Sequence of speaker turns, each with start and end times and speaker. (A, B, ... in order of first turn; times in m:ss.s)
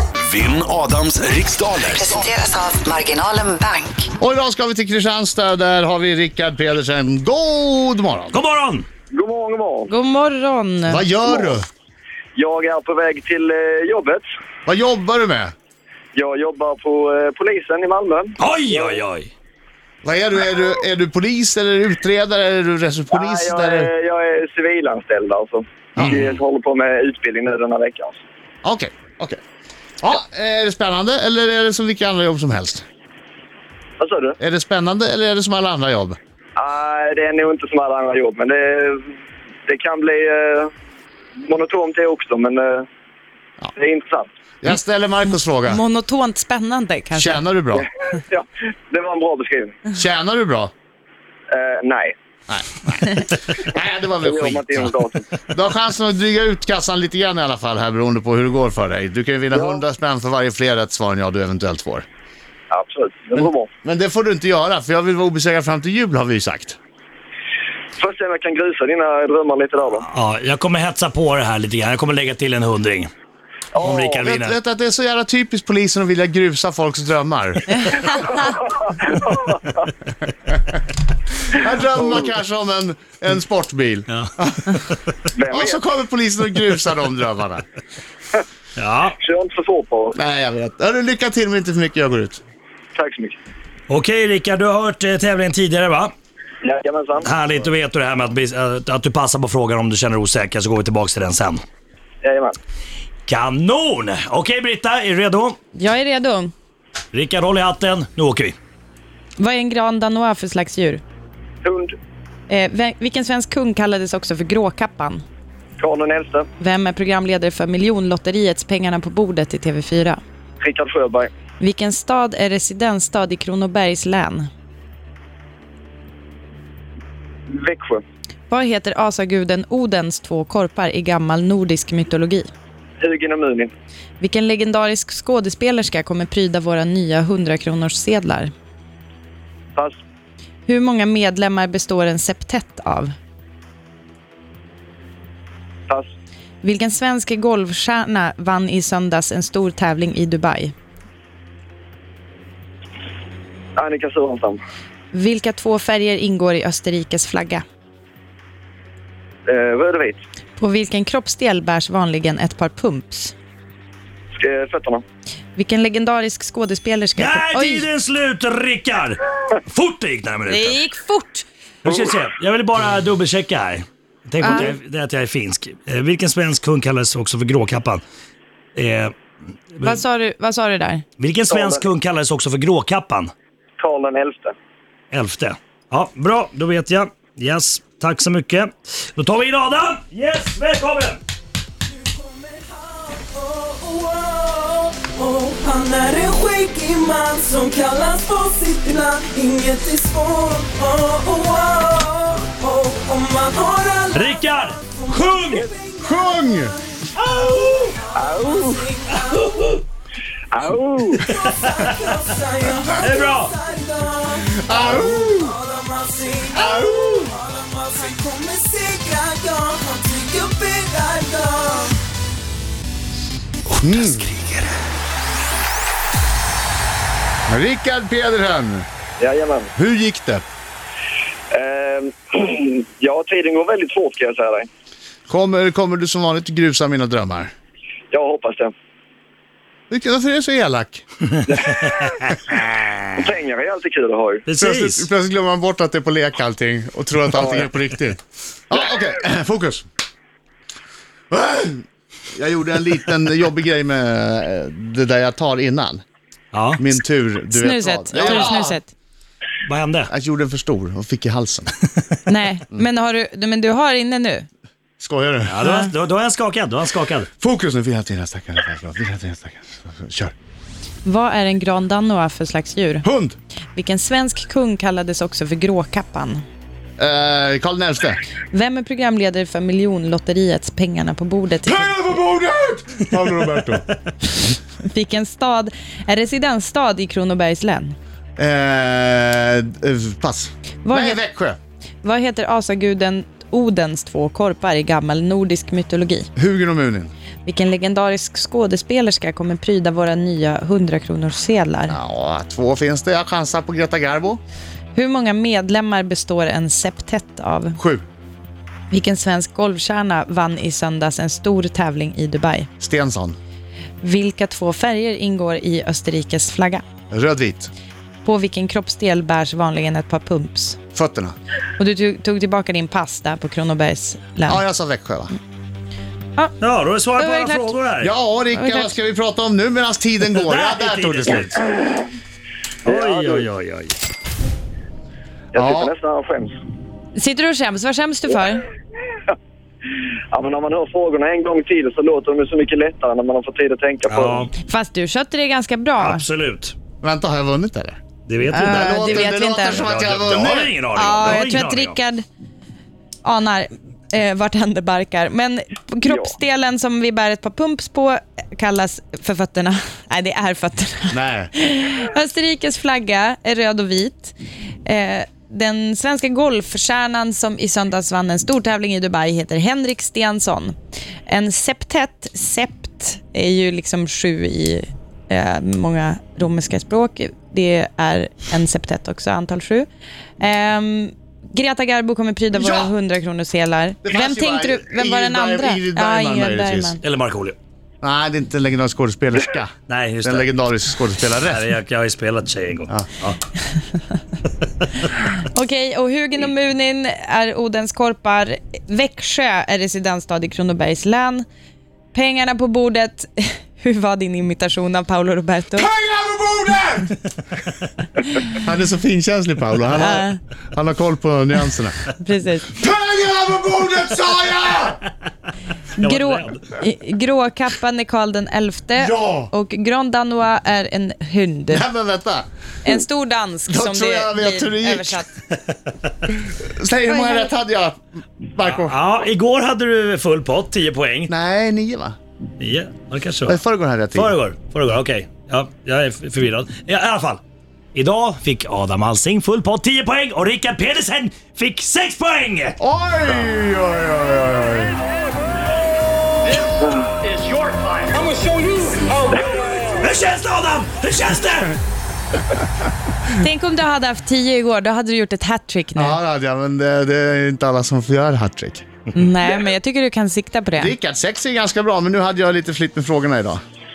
0:00.2-0:02.3 A
0:01.8-0:04.1 B
0:04.2-0:08.4 C
0:08.3-0:08.9 D
0:09.1-0:09.9 E
0:09.9-0:11.0 F
0:10.9-0:11.7 C
0:11.3-0:11.6 E
0:12.4-0:14.2 E
0:14.7-0:15.5 C
0:16.1-0:19.0 E
0:18.4-0:19.3 D
0:20.0-0:23.9 C
0:23.1-0:28.2 E
0:26.0-0:26.2 C
0:28.6-0:29.4 C
0:30.0-0:32.8 C
0:34.0-0:34.4 E
0:34.4-0:36.2 C
0:36.6-0:39.0 E
0:39.7-0:40.7 E
0:41.5-0:42.8 E
0:43.8-0:44.3 E
0:44.6-0:45.8 C
0:45.7-0:47.4 F
0:47.2-0:47.9 C
0:47.8-0:49.8 E
0:49.9-0:50.7 C
0:51.5-0:52.2 E
0:52.5-1:02.1 C
0:54.2-0:55.3 E
0:59.5-0:59.8 E
1:02.7-1:03.7 E
1:03.4-1:06.8 C
1:08.0-1:10.0 E
1:10.0-1:13.1 D
1:13.8-1:14.2 E
1:13.8-1:14.6 D
1:14.2-1:18.4 C
1:18.4-1:19.8 E
1:21.5-1:24.8 C
1:24.1-1:25.0 D
1:25.4-1:25.8 E
1:25.5-1:27.6 C
1:28.8-1:29.2 D
1:29.2-1:30.2 E
1:30.2-1:32.4 C
1:33.0-1:33.4 E
1:33.9-1:36.1 D
1:36.6-1:37.3 E
1:37.2-1:41.6 D
1:42.2-1:42.6 E
1:43.3-1:45.6 D
1:45.8-1:46.5 F
1:47.1-1:48.6 D
1:49.4-1:51.0 F
1:51.6-1:52.0 E
1:52.5-1:55.2 F
1:55.8-1:56.5 E
1:56.6-2:00.2 F
2:00.6-2:01.3 E
2:01.6-2:04.5 F
2:07.5-2:08.0 E
2:08.5-2:12.5 F
2:13.0-2:13.7 E
2:14.2-2:18.5 F
2:20.7-2:23.1 F
2:26.6-2:30.7 F
2:33.8-2:34.6 E
2:35.1-2:37.6 F
2:39.5-2:40.2 E
2:40.6-2:43.3 F
2:44.4-2:45.0 E
2:45.6-2:47.9 F
2:47.2-2:50.8 D
2:50.5-2:51.5 F
2:51.8-2:58.0 D
2:54.4-2:54.7 F
2:58.8-2:59.1 D
2:59.7-3:00.0 D
2:59.8-3:01.0 F
3:01.2-3:03.3 D
3:01.5-3:01.9 E
3:03.8-3:04.6 E
3:05.1-3:11.2 D
3:11.9-3:29.8 G
3:24.1-3:25.7 D
3:26.0-3:26.8 C
3:27.2-3:28.0 D
3:28.2-3:28.9 E
3:30.5-3:31.3 E
3:31.3-3:31.7 D
3:31.3-3:42.0 G
3:33.0-3:33.5 D
3:34.5-3:35.6 C
3:36.5-3:37.4 C
3:43.7-3:44.7 D
3:43.8-3:44.3 C
3:47.5-3:48.9 C
3:49.2-3:49.7 E
3:49.8-3:50.4 C
3:51.5-3:54.7 E
3:55.3-3:57.5 C
3:58.1-3:58.7 E
3:59.9-4:01.0 C
4:01.5-4:02.3 E
4:02.5-4:02.9 C
4:03.2-4:04.4 E
4:04.5-4:05.1 D
4:04.6-4:09.9 C
4:07.4-4:07.7 E
4:11.3-4:11.8 C
4:12.4-4:16.0 C
4:16.5-4:16.9 D
4:16.8-4:18.8 C
4:17.5-4:18.9 F
4:18.2-4:18.5 D
4:19.6-4:20.1 D
4:20.1-4:21.7 C
4:22.3-4:24.5 F
4:25.0-4:25.6 C
4:25.5-4:27.3 D
4:25.6-4:25.9 F
4:27.4-4:30.3 C
4:31.0-4:33.1 F
4:33.0-4:33.4 C
4:33.8-4:36.4 F
4:37.0-4:38.2 C
4:38.5-4:42.0 F
4:41.7-4:43.9 C
4:44.8-4:48.0 F
4:48.4-4:51.6 C
4:50.8-4:51.2 F
4:52.0-4:56.3 F
4:56.4-4:57.1 C
4:57.4-5:02.0 F
5:01.9-5:04.4 C
5:05.0-5:07.8 F
5:07.8-5:08.0 C
5:08.9-5:12.7 F
5:12.8-5:13.4 C
5:14.0-5:16.8 F
5:17.1-5:17.7 C
5:18.2-5:20.8 F
5:21.0-5:21.4 C
5:21.8-5:24.6 F
5:24.5-5:25.3 C
5:26.6-5:28.1 D
5:27.2-5:27.8 F
5:28.0-5:31.6 C
5:28.5-5:28.9 F
5:30.3-5:31.6 D
5:32.8-5:33.5 E
5:32.8-5:34.0 D
5:35.5-5:36.6 E
5:35.6-5:35.9 C
5:37.2-5:38.6 F
5:40.3-5:44.5 E
5:44.1-5:44.5 D
5:44.7-5:46.2 F
5:46.0-5:46.8 D
5:47.0-5:48.0 C
5:48.3-5:52.0 D
5:48.5-5:49.8 F
5:48.5-5:50.8 C
5:50.9-5:52.2 F
5:53.2-6:10.8 F
5:56.0-5:56.3 E
6:01.1-6:01.5 C
6:11.3-6:19.9 F
6:20.4-6:27.0 F
6:22.5-6:22.9 C
6:24.0-6:27.0 C
6:27.0-6:27.6 D
6:28.0-6:29.7 C
6:29.9-6:30.5 D
6:30.2-6:31.7 C
6:31.3-6:33.4 D
6:35.5-6:41.5 F
6:42.1-6:45.9 F
6:45.8-6:47.2 C
6:48.5-6:52.0 C
6:50.0-6:50.4 F
6:52.2-6:52.7 F
6:52.7-6:55.0 C
6:56.0-6:56.6 D
6:56.0-7:01.8 F
6:59.0-6:59.5 C
7:01.7-7:02.5 C
7:02.8-7:05.3 F
7:03.7-7:05.3 C
7:06.6-7:09.0 C
7:07.1-7:07.5 F
7:08.6-7:11.3 D
7:11.3-7:12.2 C
7:12.6-7:13.6 D
7:13.5-7:14.4 C
7:14.2-7:17.4 D
7:17.9-7:22.8 D
7:22.8-7:25.0 C
7:29.4-7:29.6 E
7:29.9-7:31.8 D
7:33.3-7:36.2 F
7:36.0-7:38.8 C
7:39.1-7:41.0 F
7:40.8-7:43.6 C